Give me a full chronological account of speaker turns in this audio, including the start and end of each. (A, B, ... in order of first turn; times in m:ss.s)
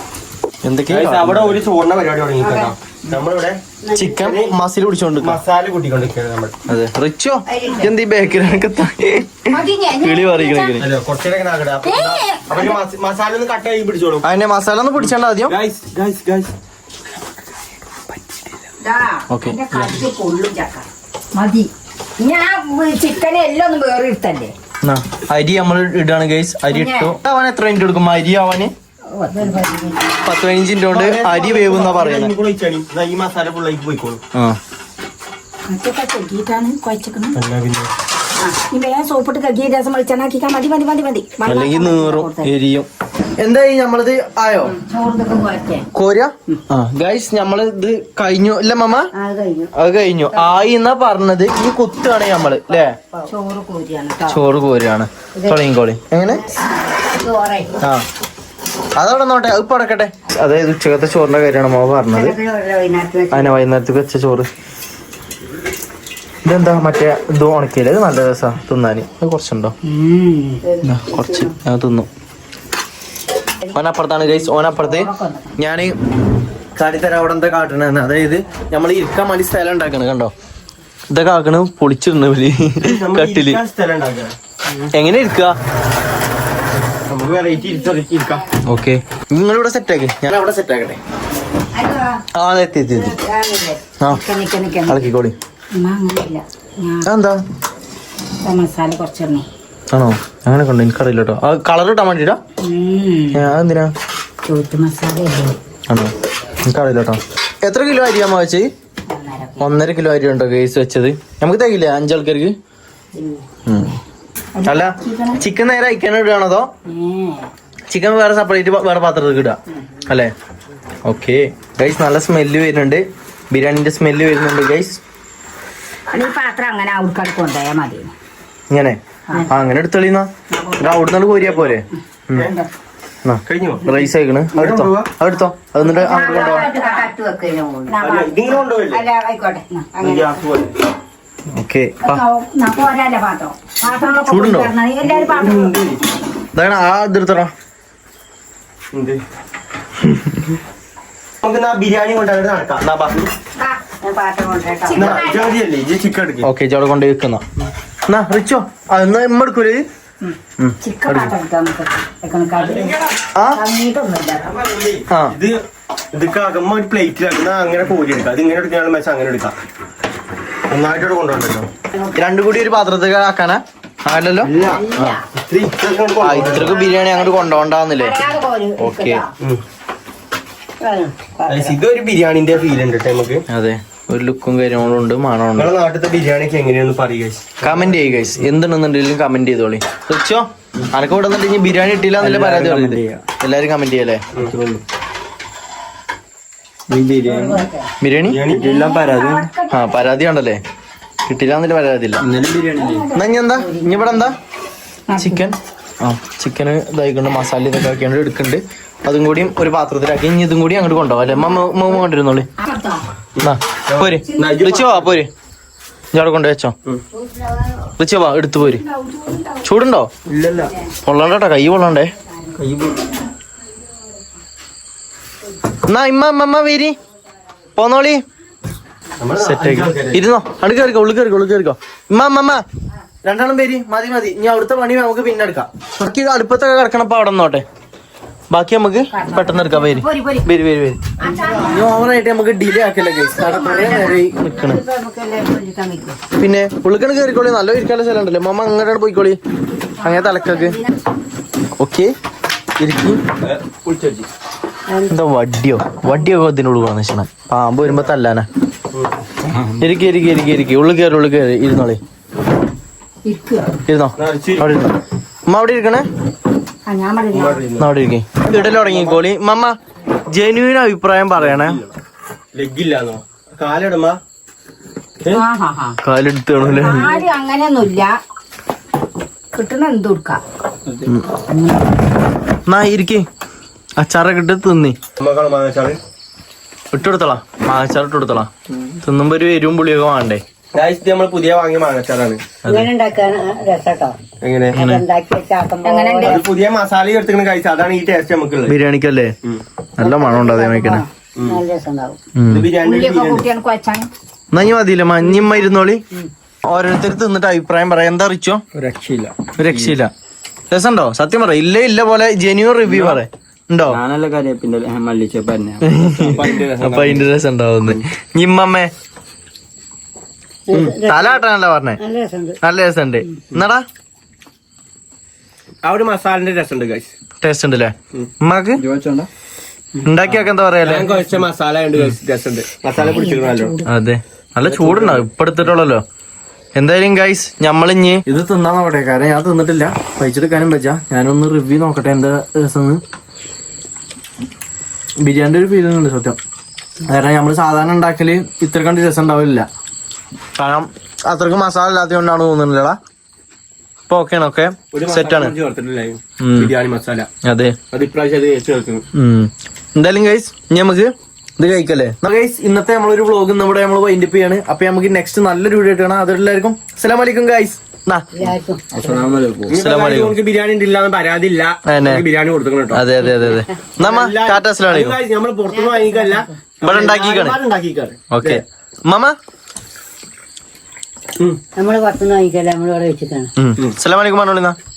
0:00.6-0:01.6 A
0:00.9-0:03.6 B
0:03.8-0:04.2 C
0:03.9-0:05.4 A
0:04.2-0:04.5 B
0:05.2-0:06.5 B
0:06.7-0:10.8 A
0:07.5-0:07.9 C
0:09.5-0:10.8 D
0:10.8-0:14.3 B
0:11.8-0:12.8 D
0:14.2-0:15.6 A
0:15.5-0:16.5 B
0:18.8-0:24.5 D
0:19.3-0:20.0 A
0:24.8-0:28.7 A
0:26.7-0:27.1 D
0:29.1-0:29.9 D
0:29.3-0:30.0 C
0:30.2-0:32.3 A
0:30.9-0:34.2 B
0:35.7-0:37.4 D
0:37.3-0:37.9 B
0:38.4-0:42.5 D
0:41.4-0:44.8 A
0:44.6-0:45.9 D
0:45.9-0:49.1 A
0:49.1-0:49.7 C
0:49.7-0:53.0 A
0:53.3-0:54.4 D
0:54.3-0:56.4 A
0:55.4-0:55.6 C
0:56.3-0:57.7 C
0:59.0-1:02.4 A
1:02.1-1:03.5 C
1:03.3-1:04.5 A
1:06.4-1:09.8 A
1:09.8-1:10.6 D
1:10.6-1:11.6 C
1:10.8-1:12.1 A
1:13.7-1:16.0 A
1:14.5-1:15.5 D
1:16.8-1:20.3 A
1:21.1-1:23.6 A
1:22.8-1:24.3 B
1:24.9-1:25.6 A
1:27.1-1:28.4 B
1:28.6-1:31.0 A
1:31.7-1:32.2 C
1:32.4-1:33.1 A
1:32.9-1:33.8 C
1:34.1-1:35.0 D
1:34.9-1:35.4 A
1:35.7-1:37.1 D
1:37.0-1:37.4 A
1:38.4-1:39.4 D
1:39.9-1:42.4 A
1:42.6-1:43.5 D
1:43.3-1:43.9 A
1:44.5-1:45.5 D
1:45.9-1:48.7 A
1:49.1-1:49.8 D
1:49.6-1:52.6 A
1:53.6-1:54.0 A
1:54.5-1:55.4 D
1:54.6-1:56.7 A
1:56.8-1:57.5 D
1:57.9-2:00.3 A
2:01.0-2:05.0 A
2:06.1-2:08.1 D
2:08.7-2:12.5 A
2:10.5-2:11.1 D
2:11.4-2:11.8 B
2:12.4-2:12.7 D
2:13.2-2:16.7 A
2:13.4-2:13.9 B
2:14.5-2:15.1 B
2:15.8-2:17.1 D
2:15.8-2:18.0 C
2:17.9-2:18.6 D
2:18.0-2:19.0 B
2:18.9-2:20.4 C
2:19.7-2:20.3 D
2:20.0-2:20.7 B
2:21.5-2:22.2 A
2:22.0-2:25.8 D
2:24.3-2:24.7 A
2:25.1-2:26.0 B
2:26.5-2:27.5 A
2:28.9-2:29.2 B
2:31.4-2:33.3 B
2:33.6-2:35.3 C
2:34.8-2:35.6 D
2:34.9-2:36.5 B
2:36.4-2:37.4 A
2:38.1-2:39.8 A
2:40.2-2:44.5 D
2:40.6-2:41.3 A
2:42.6-2:43.0 B
2:44.5-2:45.6 B
2:45.1-2:45.4 A
2:46.1-2:49.5 B
2:50.7-2:51.7 B
2:52.1-2:55.2 A
2:54.4-2:54.8 B
2:54.6-2:55.2 D
2:55.4-2:56.8 B
2:56.2-2:58.2 A
2:56.3-2:59.3 D
2:58.8-2:59.2 A
3:00.8-3:01.8 C
3:01.5-3:03.4 B
3:03.5-3:05.7 A
3:05.6-3:07.6 B
3:07.6-3:14.2 A
3:12.2-3:13.2 E
3:14.4-3:14.8 E
3:16.9-3:17.6 E
3:17.2-3:17.9 C
3:18.0-3:18.4 A
3:18.3-3:19.0 B
3:18.5-3:20.1 D
3:18.7-3:19.5 E
3:19.7-3:20.6 A
3:21.2-3:22.2 A
3:22.2-3:23.1 E
3:22.8-3:23.3 D
3:23.1-3:24.4 A
3:23.5-3:24.3 C
3:25.1-3:25.4 D
3:25.2-3:32.5 A
3:32.6-3:33.0 D
3:33.4-3:35.2 B
3:33.4-3:35.3 A
3:34.2-3:34.6 D
3:36.1-3:36.7 A
3:37.1-3:37.9 C
3:38.0-3:38.8 A
3:38.7-3:39.6 D
3:39.6-3:40.1 A
3:40.3-3:40.7 B
3:41.0-3:42.1 A
3:42.5-3:43.1 E
3:45.8-3:46.9 A
3:47.8-3:48.2 A
3:49.2-3:50.2 B
3:49.4-3:52.6 A
3:53.2-3:57.6 A
3:58.5-4:01.1 A
3:59.1-4:00.5 D
4:01.2-4:01.9 D
4:01.2-4:01.8 C
4:01.6-4:04.8 A
4:03.3-4:04.1 D
4:03.4-4:06.2 C
4:06.4-4:09.4 A
4:09.9-4:11.0 D
4:10.0-4:10.8 A
4:11.8-4:12.1 A
4:12.8-4:13.2 A
4:13.4-4:14.2 E
4:14.9-4:15.2 C
4:15.1-4:18.5 A
4:19.5-4:19.8 E
4:19.8-4:22.0 A
4:23.2-4:23.7 D
4:23.9-4:26.1 A
4:24.2-4:24.7 B
4:26.9-4:27.6 D
4:27.3-4:27.9 B
4:27.8-4:29.8 A
4:28.5-4:29.2 B
4:30.3-4:31.8 A
4:31.5-4:31.9 B
4:32.5-4:34.2 B
4:35.3-4:36.0 D
4:36.0-4:37.1 A
4:36.6-4:38.2 D
4:39.5-4:40.4 D
4:40.8-4:41.1 E
4:41.5-4:41.8 D
4:42.6-4:43.2 A
4:44.0-4:45.0 A
4:45.2-4:46.0 B
4:46.9-4:50.4 A
4:50.7-4:52.4 B
4:52.6-4:54.2 C
4:54.4-4:54.8 B
4:54.7-4:55.0 A
4:54.8-4:56.4 C
4:55.8-4:56.4 D
4:56.2-4:58.8 B
4:58.7-4:59.3 A
5:00.0-5:01.0 A
5:00.0-5:02.2 C
5:01.4-5:01.6 B
5:02.4-5:02.7 A
5:02.5-5:03.4 B
5:02.6-5:04.1 D
5:04.5-5:06.0 A
5:06.6-5:08.6 A
5:08.7-5:10.0 E
5:09.6-5:10.1 A
5:10.7-5:14.0 A
5:12.9-5:13.2 E
5:13.9-5:16.6 E
5:15.8-5:18.9 A
5:16.2-5:17.3 B
5:20.7-5:21.4 C
5:21.0-5:22.0 A
5:22.0-5:22.6 C
5:22.6-5:23.8 A
5:25.8-5:27.1 B
5:27.4-5:28.8 A
5:28.8-5:29.3 E
5:30.0-5:31.1 A
5:30.8-5:33.8 B
5:33.1-5:33.9 D
5:33.8-5:36.0 A
5:34.7-5:35.2 E
5:36.8-5:43.0 A
5:45.2-5:46.4 A
5:47.0-5:49.7 A
5:50.6-5:53.0 A
5:54.1-5:55.5 A
5:54.9-5:57.3 B
5:56.4-5:56.7 A
5:57.4-5:57.8 A
5:57.9-5:59.0 B
5:59.1-6:08.3 A
6:08.3-6:09.1 C
6:08.9-6:09.7 E
6:09.7-6:13.0 B
6:09.7-6:10.4 A
6:11.8-6:12.2 A
6:12.9-6:15.2 A
6:14.0-6:18.6 B
6:15.7-6:16.5 C
6:16.8-6:17.6 A
6:18.3-6:19.4 A
6:21.8-6:23.5 C
6:23.6-6:24.8 A